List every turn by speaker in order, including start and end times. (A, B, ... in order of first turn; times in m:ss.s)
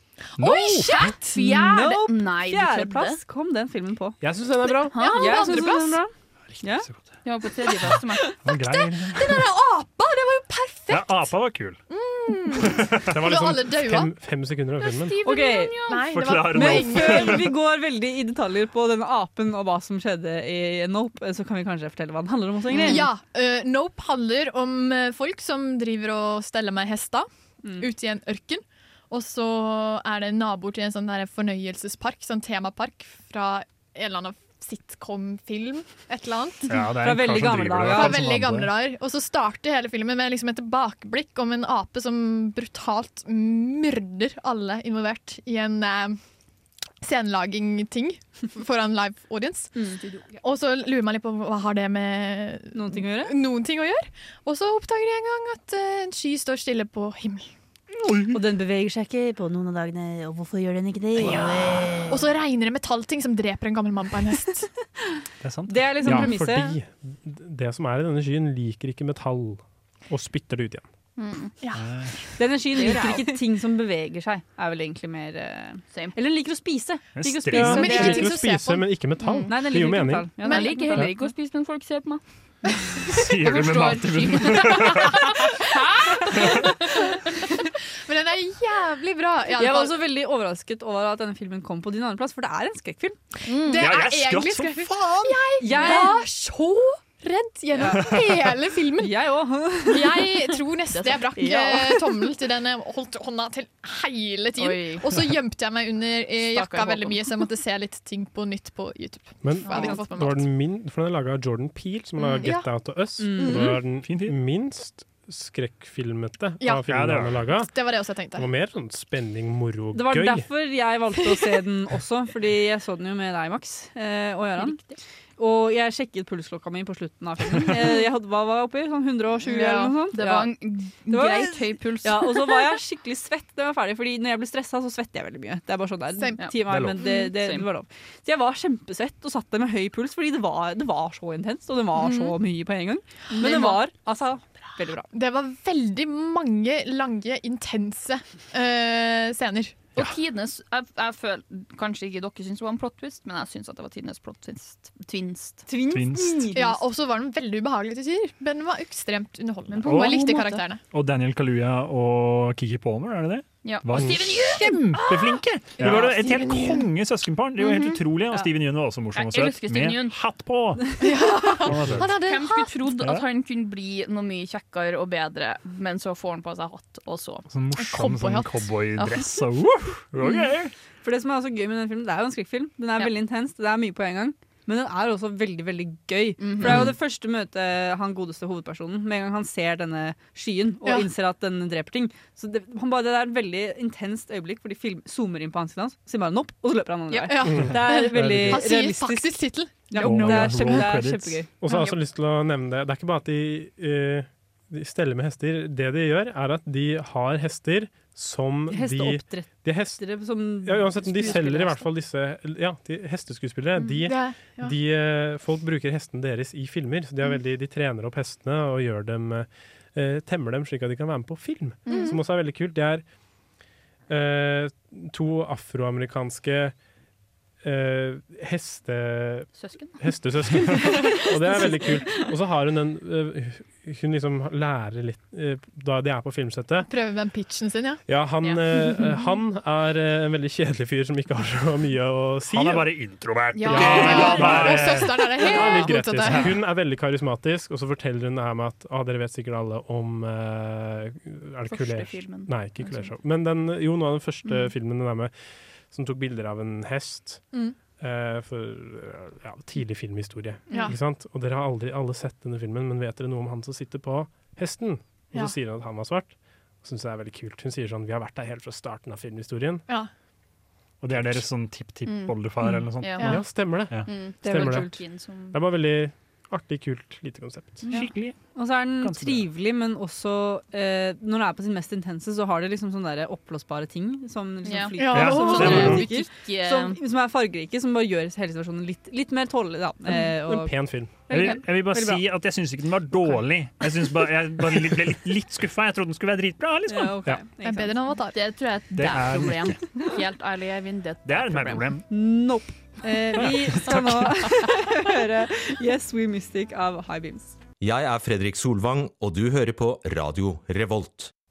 0:00.4-0:01.0 A
0:00.4-0:01.5 B
0:00.9-0:03.2 C
0:01.4-0:04.2 D
0:04.2-0:05.1 E
0:04.9-0:05.7 C
0:04.9-0:06.0 B
0:05.2-0:06.9 D
0:06.5-0:07.1 A
0:07.2-0:08.3 C
0:07.8-0:09.5 A
0:08.5-0:11.3 B
0:10.9-0:11.8 A
0:11.9-0:14.1 B
0:12.7-0:13.1 A
0:13.1-0:15.2 E
0:14.8-0:16.2 C
0:15.2-0:15.8 D
0:15.8-0:17.4 B
0:16.1-0:17.5 A
0:16.5-0:23.1 D
0:22.7-0:23.1 C
0:22.7-0:27.3 B
0:27.8-0:36.8 B
0:36.7-0:38.8 A
0:37.0-0:38.2 D
0:37.9-0:46.2 B
0:47.0-0:49.8 B
0:50.3-0:57.5 B
0:52.7-0:53.4 D
0:58.3-1:02.2 D
1:01.3-1:02.0 C
1:02.1-1:04.7 B
1:05.4-1:05.9 A
1:05.7-1:06.8 D
1:06.0-1:10.9 E
1:11.2-1:11.6 C
1:11.8-1:12.2 A
1:12.4-1:18.4 D
1:12.7-1:13.3 C
1:15.9-1:16.2 C
1:17.2-1:17.8 A
1:17.5-1:20.4 E
1:17.6-1:18.9 B
1:19.2-1:19.5 C
1:19.5-1:21.1 D
1:20.4-1:20.8 B
1:20.5-1:22.2 C
1:23.0-1:27.2 C
1:23.1-1:25.4 A
1:26.4-1:26.6 A
1:28.1-1:30.0 B
1:29.6-1:33.2 D
1:33.5-1:34.0 C
1:33.5-1:39.2 B
1:33.7-1:35.4 A
1:35.6-1:36.2 D
1:35.7-1:36.1 C
1:37.8-1:38.1 D
1:39.0-1:40.3 D
1:39.9-1:50.4 B
1:40.9-1:41.3 C
1:41.4-1:42.0 D
1:44.6-1:45.3 C
1:46.4-1:47.2 C
1:49.4-2:00.5 E
1:49.7-1:50.0 C
1:52.3-1:52.7 B
1:53.2-1:53.8 D
1:54.0-1:54.4 A
1:56.6-1:56.9 B
1:56.9-1:57.5 A
1:57.6-1:58.5 B
1:59.9-2:04.8 D
2:04.6-2:05.0 C
2:05.4-2:10.5 D
2:09.4-2:12.7 C
2:11.1-2:25.1 D
2:16.2-2:16.5 B
2:16.4-2:17.7 C
2:16.7-2:17.0 E
2:22.0-2:22.3 C
2:23.3-2:23.8 C
2:25.1-2:29.9 B
2:30.0-2:35.7 C
2:35.7-2:36.8 D
2:35.9-2:36.4 A
2:36.5-2:40.8 B
2:39.7-2:40.7 C
2:39.8-2:40.2 A
2:40.9-2:52.2 A
2:43.6-2:46.9 C
2:46.2-2:46.6 B
2:47.6-2:48.0 C
2:49.2-2:50.2 C
2:51.0-2:52.8 B
2:52.0-2:57.5 C
2:53.0-2:53.2 A
2:57.5-3:00.7 A
2:57.8-2:58.7 B
3:00.2-3:00.5 C
3:01.0-3:21.5 D
3:06.4-3:07.0 C
3:10.8-3:11.1 B
3:17.2-3:20.9 B
3:17.5-3:18.6 E
3:20.0-3:21.4 A
3:21.6-3:30.0 E
3:21.7-3:21.9 C
3:28.7-3:31.9 D
3:30.6-3:43.0 E
3:34.0-3:34.8 B
3:44.1-3:46.8 E
3:47.6-3:49.5 E
3:49.6-3:50.0 C
3:50.0-3:56.9 E
3:56.9-3:58.0 B
3:58.1-4:02.9 E
4:02.5-4:05.6 A
4:03.6-4:06.6 B
4:03.6-4:04.4 C
4:03.7-4:15.3 E
4:06.2-4:06.5 A
4:11.7-4:13.1 C
4:15.9-4:17.4 E
4:18.0-4:29.9 E
4:31.0-4:33.3 A
4:31.1-4:31.5 E
4:32.0-4:32.4 C
4:33.0-4:33.4 C
4:33.2-4:37.9 E
4:34.1-4:35.6 C
4:34.4-4:35.0 D
4:37.9-4:38.4 A
4:37.9-4:50.7 D
4:39.0-4:39.5 A
4:44.6-4:47.0 C
4:45.0-4:46.0 B
4:45.1-4:46.0 A
4:45.6-4:46.0 E
4:50.3-4:51.2 E
4:51.3-4:52.2 D
4:51.3-4:57.2 A
4:56.9-4:58.0 D
4:57.6-4:58.4 B
4:58.3-5:01.9 C
4:59.0-4:59.8 A
5:01.2-5:02.0 A
5:02.1-5:07.6 D
5:03.4-5:04.3 A
5:03.9-5:04.2 C
5:07.8-5:11.3 F